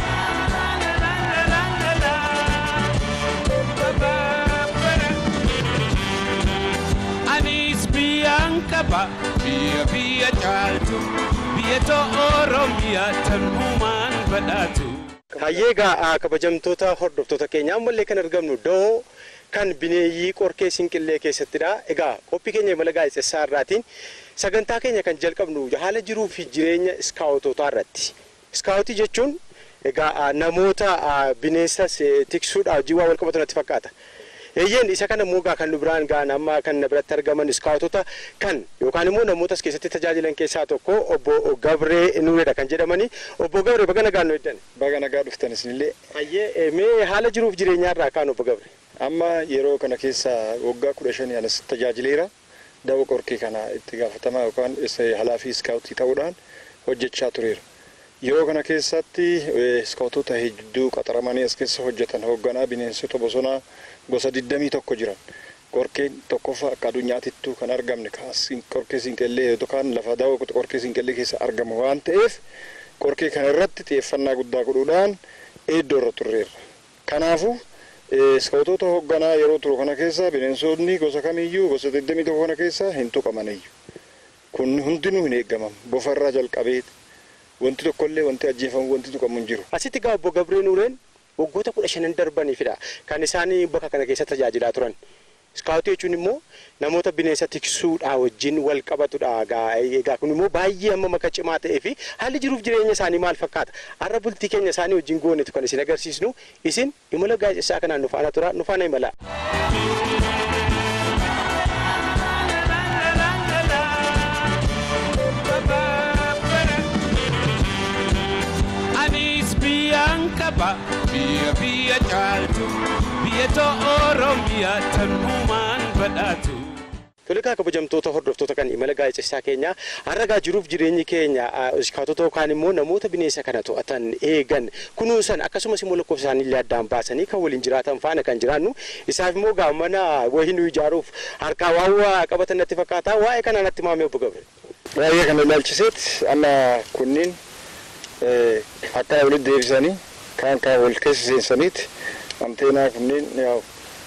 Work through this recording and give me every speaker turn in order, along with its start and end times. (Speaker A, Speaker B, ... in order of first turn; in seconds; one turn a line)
Speaker A: 1.1-2.9
Speaker A: 3.8-5.2
Speaker A: 7.3-15.1
Speaker B: 15.4-23.8
Speaker B: 24.4-33.9
Speaker B: 34.6-44.6
Speaker C: 44.8-45.9
Speaker B: 46.1-48.7
Speaker C: 49.0-52.3
Speaker C: 52.8-57.6
Speaker C: 58.2-65.2
Speaker C: 65.7-72.4
Speaker C: 73.0-75.2
Speaker C: 75.7-83.7
Speaker C: 84.5-86.9
Speaker C: 87.6-89.7
Speaker B: 89.7-95.0
Speaker B: 95.5-109.1
Speaker A: 112.7-114.6
Speaker A: 115.5-116.9
Speaker A: 119.0-126.8
Speaker B: 127.3-144.4
Speaker C: 145.0-147.3
Speaker C: 148.2-151.9
Speaker C: 152.4-153.6